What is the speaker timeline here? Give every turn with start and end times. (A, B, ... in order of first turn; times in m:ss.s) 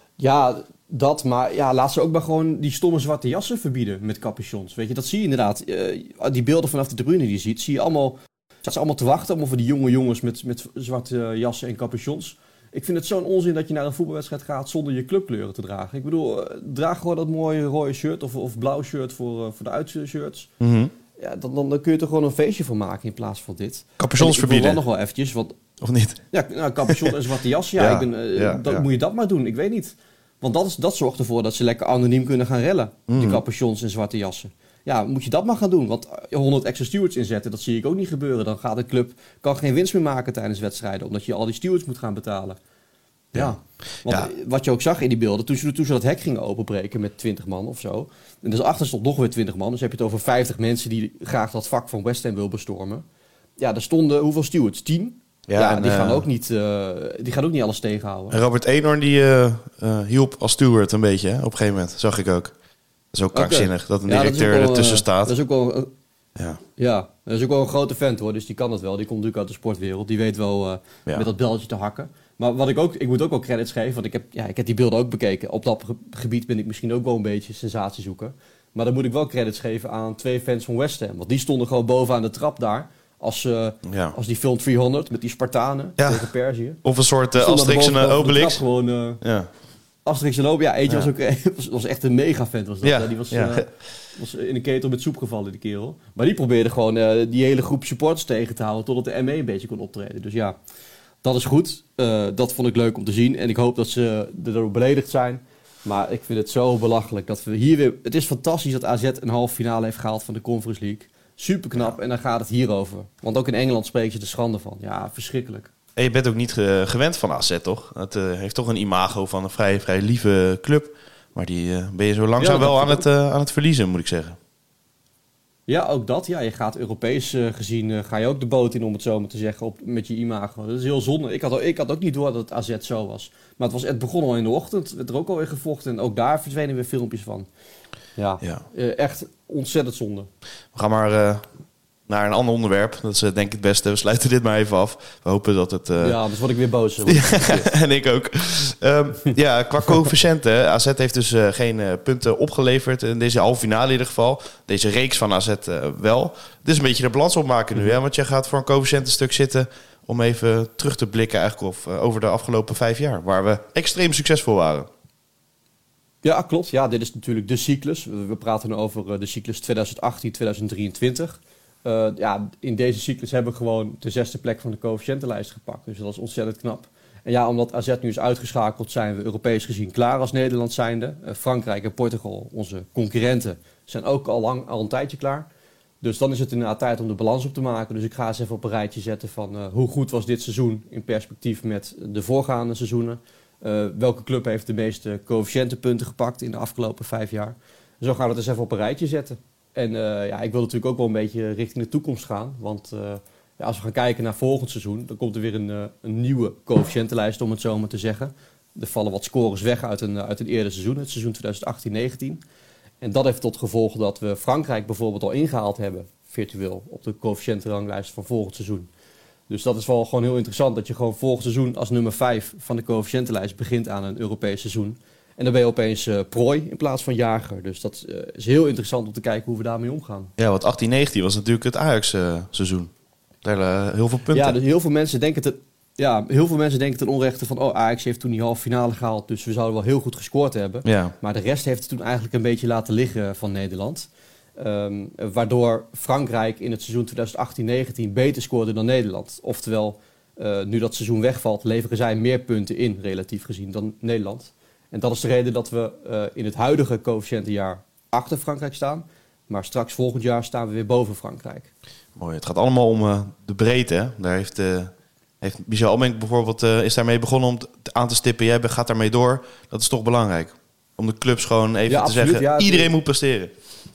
0:00.2-0:20.5 A
0:20.6-0:20.9 B
0:21.2-0:25.6 A
0:24.0-0:24.8 B
0:25.8-0:26.2 B
0:26.3-0:42.6 A
0:26.9-0:27.2 B
0:27.8-0:28.8 B
0:33.1-0:33.4 B
0:43.4-0:53.0 A
0:53.6-0:58.4 A
0:55.5-0:56.2 B
0:58.3-1:02.5 B
1:03.1-1:05.3 B
1:03.3-1:05.9 A
1:06.8-1:26.8 A
1:23.9-1:24.2 B
1:26.0-1:26.3 B
1:26.8-1:28.6 B
1:27.4-1:29.2 A
1:29.2-1:29.5 B
1:30.0-1:40.6 A
1:32.8-1:33.7 B
1:41.2-1:55.7 A
1:56.0-2:04.4 B
2:02.4-2:03.1 A
2:05.7-2:17.5 A
2:18.2-2:20.3 A
2:20.7-2:21.5 B
2:22.1-2:26.2 B
2:26.0-2:27.7 A
2:27.1-2:44.9 B
2:46.2-3:05.5 A
3:06.0-3:32.4 A
3:33.0-3:38.9 A
3:39.5-3:50.3 A
3:50.4-3:52.9 B
3:53.4-3:54.6 B
3:54.3-4:21.7 A
4:00.8-4:01.2 B
4:22.2-4:33.5 B
4:31.9-4:33.0 A